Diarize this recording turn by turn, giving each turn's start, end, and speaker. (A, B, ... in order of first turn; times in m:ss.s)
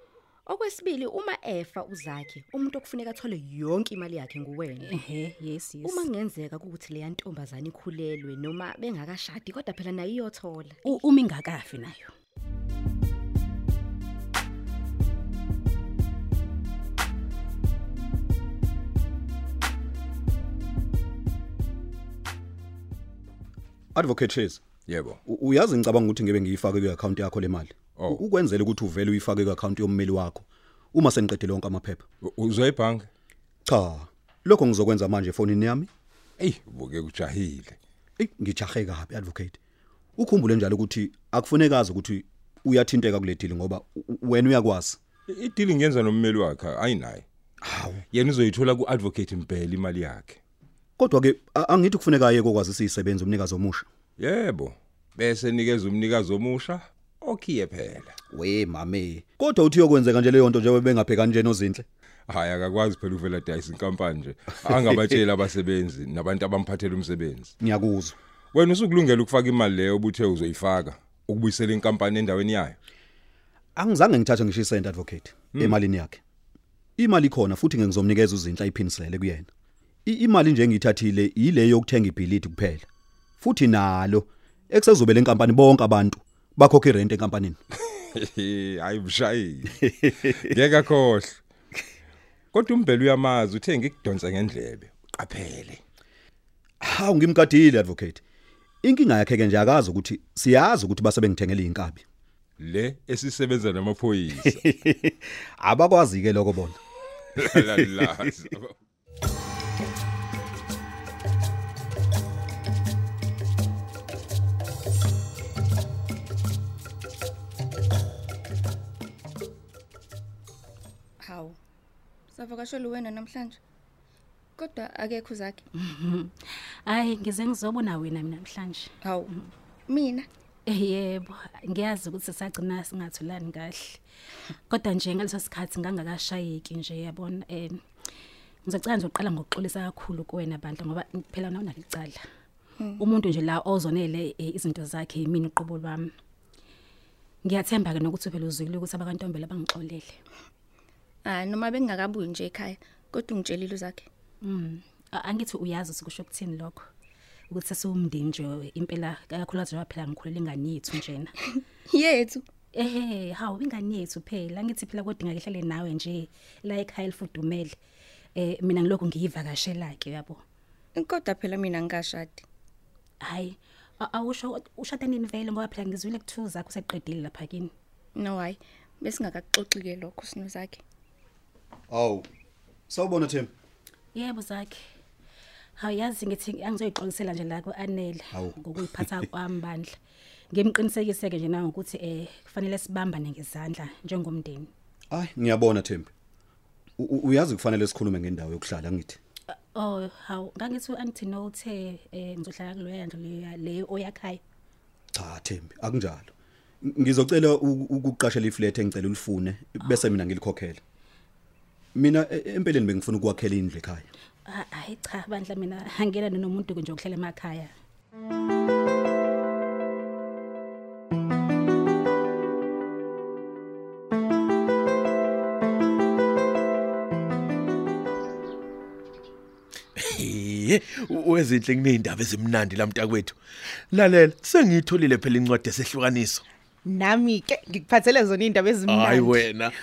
0:00.5-0:04.9 A
0:04.8-0:06.0 B
0:05.8-0:10.8 A
0:10.8-0:12.1 B
0:23.9-0:24.6 C
0:24.9-0:25.2 D
0:25.2-0:32.0 C
0:32.2-0:33.1 D
0:33.6-0:35.9 C
0:36.4-0:37.8 D
0:38.2-0:39.6 C
0:40.2-0:45.0 C
0:45.3-0:47.2 D
0:47.6-0:48.0 C
0:48.1-0:50.4 D
0:51.0-0:53.8 C
0:54.2-0:58.1 D
0:58.3-1:01.8 C
1:02.3-1:07.5 D
1:07.6-1:08.2 C
1:08.5-1:12.8 D
1:13.8-1:16.2 C
1:17.0-1:19.5 C
1:20.0-1:22.9 C
1:23.4-1:27.6 C
1:28.1-1:31.4 D
1:32.5-1:35.8 D
1:36.8-1:38.2 C
1:38.8-1:42.0 C
1:42.6-1:44.6 D
1:44.4-1:46.8 C
1:47.4-1:48.7 D
1:47.4-1:48.3 C
2:01.2-2:01.5 E
2:02.4-2:03.6 E
2:04.6-2:05.6 E
2:05.8-2:08.9 B
2:09.9-2:10.3 E
2:10.6-2:14.0 B
2:14.7-2:17.8 B
2:18.6-2:22.2 B
2:23.0-2:26.1 B
2:27.4-2:30.2 B
2:31.2-2:34.0 E
2:34.4-2:36.8 B
2:37.5-2:41.3 B
2:41.9-2:42.4 E
2:42.7-2:47.8 B
2:48.4-2:50.4 B
2:51.0-2:52.4 E
2:53.2-2:57.7 B
2:58.2-3:00.8 E
3:01.9-3:02.2 C
3:02.9-3:03.5 C
3:04.1-3:04.8 B
3:05.8-3:09.9 B
3:08.3-3:08.6 C
3:10.5-3:14.7 B
3:15.1-3:16.1 C
3:17.0-3:19.2 C
3:19.7-3:24.4 B
3:25.1-3:26.3 C
3:26.8-3:30.8 C
3:31.9-3:34.1 C
3:34.5-3:37.7 B
3:50.0-3:53.4 F
3:53.9-3:56.4 F
3:56.8-3:59.4 G
3:58.8-3:59.7 F